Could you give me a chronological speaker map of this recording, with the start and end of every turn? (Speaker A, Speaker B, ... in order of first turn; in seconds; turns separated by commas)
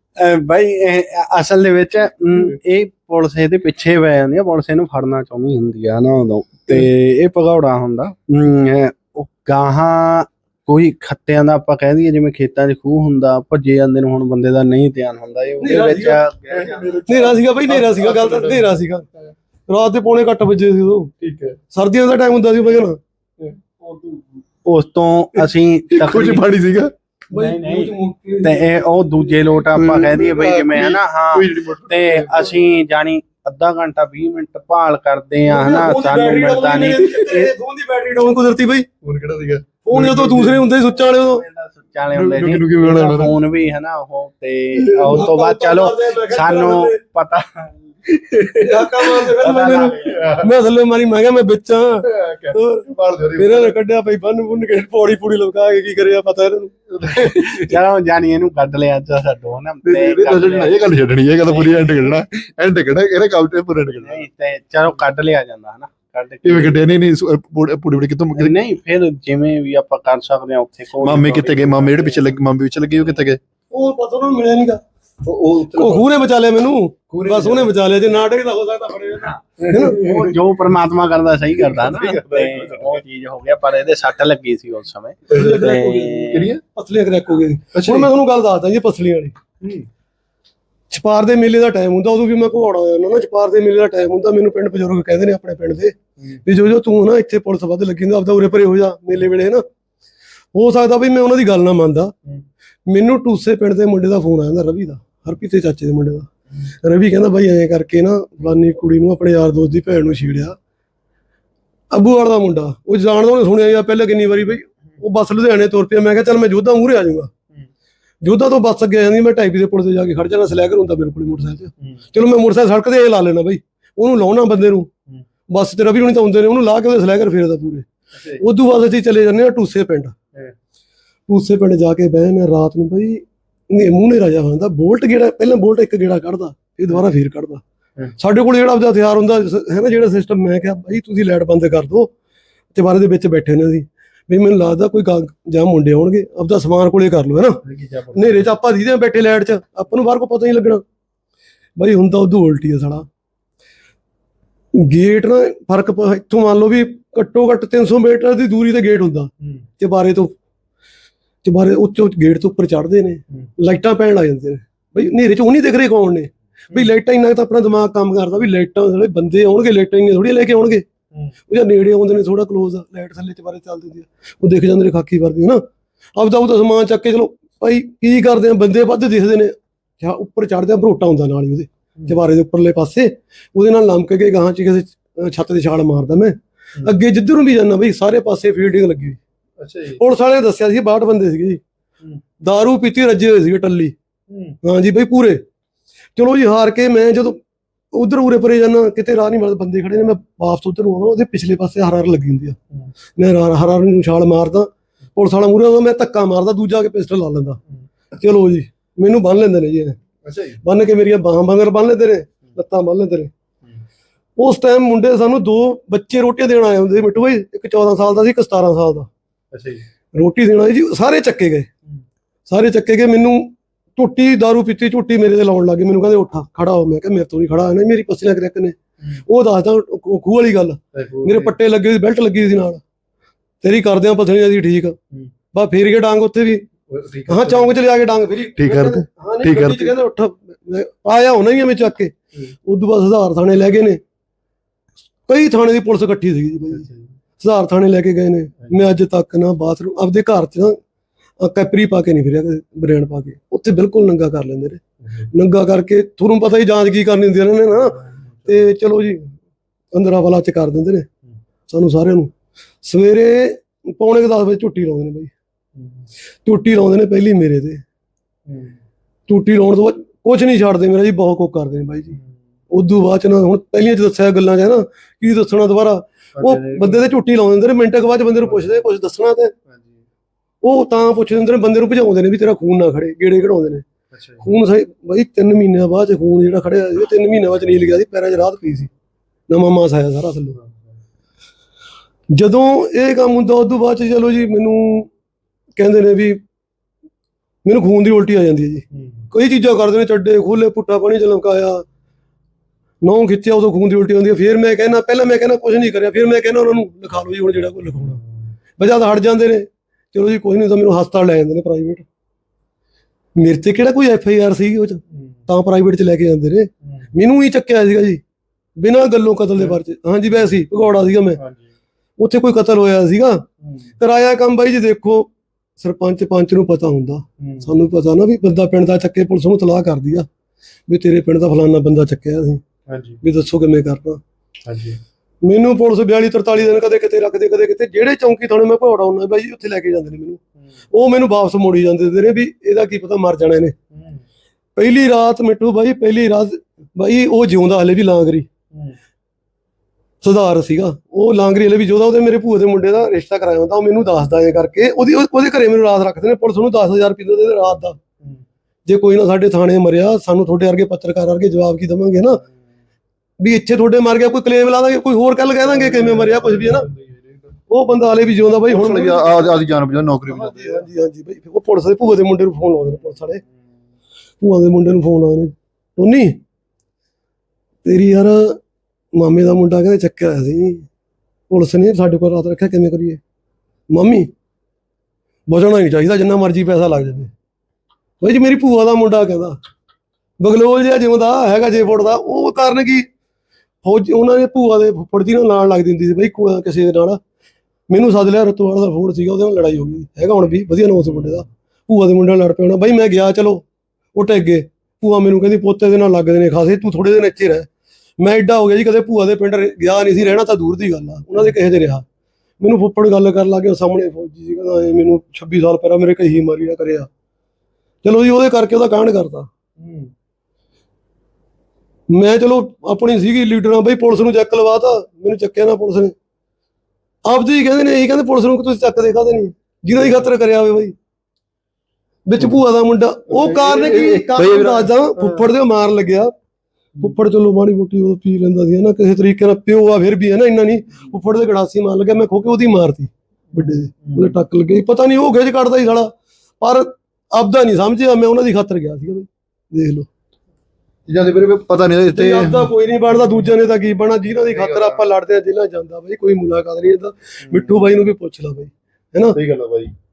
Speaker A: 0.2-17.2, Speaker B: 15.6-16.2, Speaker C: 16.5-18.7, Speaker B: 17.1-19.0, Speaker B: 19.7-21.1, Speaker C: 21.2-21.6, Speaker B: 21.7-23.0, Speaker C: 23.4-23.8, Speaker A: 24.6-26.4, Speaker C: 25.4-26.9, Speaker B: 27.3-29.3, Speaker A: 27.3-37.5, Speaker C: 29.7-32.5, Speaker B: 35.5-38.9, Speaker C: 39.0-40.6, Speaker B: 39.8-41.4, Speaker A: 41.2-47.8, Speaker C: 42.1-43.3, Speaker B: 45.0-47.0, Speaker C: 48.2-49.2, Speaker B: 48.6-52.8, Speaker A: 49.4-50.2, Speaker C: 50.0-50.4, Speaker C: 52.0-53.7, Speaker B: 53.4-57.1, Speaker C: 56.9-57.6, Speaker A: 57.1-60.9, Speaker C: 59.8-64.2, Speaker A: 61.4-62.0, Speaker A: 63.9-66.8, Speaker C: 66.4-68.6, Speaker A: 68.3-72.3, Speaker C: 71.0-73.4, Speaker B: 73.7-74.8, Speaker C: 75.2-76.0, Speaker B: 75.7-80.1, Speaker C: 77.1-77.7, Speaker C: 79.6-80.3, Speaker A: 80.0-86.5, Speaker C: 81.5-83.0, Speaker B: 85.3-89.3, Speaker C: 85.3-85.5, Speaker C: 86.3-86.6, Speaker C: 87.7-88.1, Speaker C: 89.6-89.8, Speaker B: 90.9-99.6, Speaker B: 100.5-102.1, Speaker B: 102.9-106.3, Speaker B: 106.8-110.5, Speaker B: 111.9-117.3, Speaker B: 118.2-124.9, Speaker B: 125.5-127.8, Speaker C: 128.2-128.4, Speaker B: 128.4-130.1, Speaker B: 131.3-137.6, Speaker B: 138.2-142.1, Speaker B: 142.7-147.6, Speaker C: 147.7-148.4, Speaker B: 148.1-150.8, Speaker B: 151.8-153.1, Speaker B: 154.8-160.3, Speaker B: 161.4-170.8, Speaker B: 171.5-175.6, Speaker B: 176.2-189.2, Speaker C: 189.6-190.0, Speaker B: 189.9-191.6, Speaker B: 192.4-193.9, Speaker C: 194.3-194.6, Speaker B: 194.6-195.4, Speaker B: 196.2-197.4, Speaker B: 197.9-202.6, Speaker B: 203.2-207.6, Speaker B: 208.2-210.0, Speaker C: 210.2-210.6, Speaker B: 210.6-213.3, Speaker B: 214.4-219.1, Speaker C: 219.5-219.8, Speaker B: 220.1-221.7, Speaker B: 222.5-232.8, Speaker C: 230.9-231.5, Speaker B: 233.6-235.0, Speaker B: 235.5-236.6, Speaker C: 236.9-237.7, Speaker B: 237.3-244.0, Speaker C: 238.6-239.9, Speaker B: 245.3-246.8, Speaker C: 246.7-247.1, Speaker B: 247.4-250.8, Speaker B: 251.4-259.3, Speaker C: 258.0-258.7, Speaker B: 259.9-261.1, Speaker B: 261.7-262.3, Speaker B: 262.8-265.3, Speaker B: 266.4-267.8, Speaker C: 268.5-268.7, Speaker B: 269.3-272.1, Speaker B: 272.7-279.5, Speaker C: 276.4-277.1, Speaker C: 278.4-278.8, Speaker C: 279.7-279.9, Speaker B: 280.6-283.8, Speaker C: 284.1-284.4, Speaker B: 284.4-288.9, Speaker B: 289.5-290.6, Speaker C: 290.5-290.9, Speaker B: 292.3-295.1, Speaker B: 295.8-296.4, Speaker B: 297.6-301.8, Speaker C: 298.9-299.2, Speaker B: 303.0-308.2, Speaker B: 308.8-312.0, Speaker B: 313.4-318.2, Speaker B: 318.8-321.4, Speaker C: 321.4-321.6, Speaker B: 322.2-323.4, Speaker B: 324.0-330.2, Speaker C: 327.4-327.7, Speaker B: 330.9-332.6, Speaker C: 332.9-333.2, Speaker B: 333.2-334.2, Speaker C: 334.6-335.0, Speaker B: 335.4-343.8, Speaker B: 344.8-348.5, Speaker B: 350.2-358.0, Speaker B: 358.9-362.4, Speaker B: 363.4-366.9, Speaker C: 365.6-367.5, Speaker B: 367.7-369.6, Speaker C: 368.7-370.9, Speaker B: 370.3-373.4, Speaker B: 374.4-376.4, Speaker B: 377.8-378.6, Speaker B: 379.1-380.8, Speaker B: 381.5-383.2, Speaker B: 383.9-384.3, Speaker B: 385.5-387.3, Speaker B: 388.2-389.6, Speaker B: 390.4-393.1, Speaker B: 393.8-397.2, Speaker B: 397.9-403.6, Speaker B: 404.1-407.7, Speaker B: 408.2-412.0, Speaker B: 412.6-417.1, Speaker B: 418.0-419.5, Speaker C: 419.8-420.1, Speaker B: 422.1-426.1, Speaker B: 427.2-430.9, Speaker B: 432.2-436.3, Speaker C: 433.3-435.4, Speaker B: 437.0-446.1, Speaker C: 443.5-444.4, Speaker B: 446.6-450.1, Speaker C: 451.1-452.7, Speaker B: 452.1-459.4, Speaker C: 454.5-455.0, Speaker C: 457.4-457.8, Speaker C: 459.3-459.9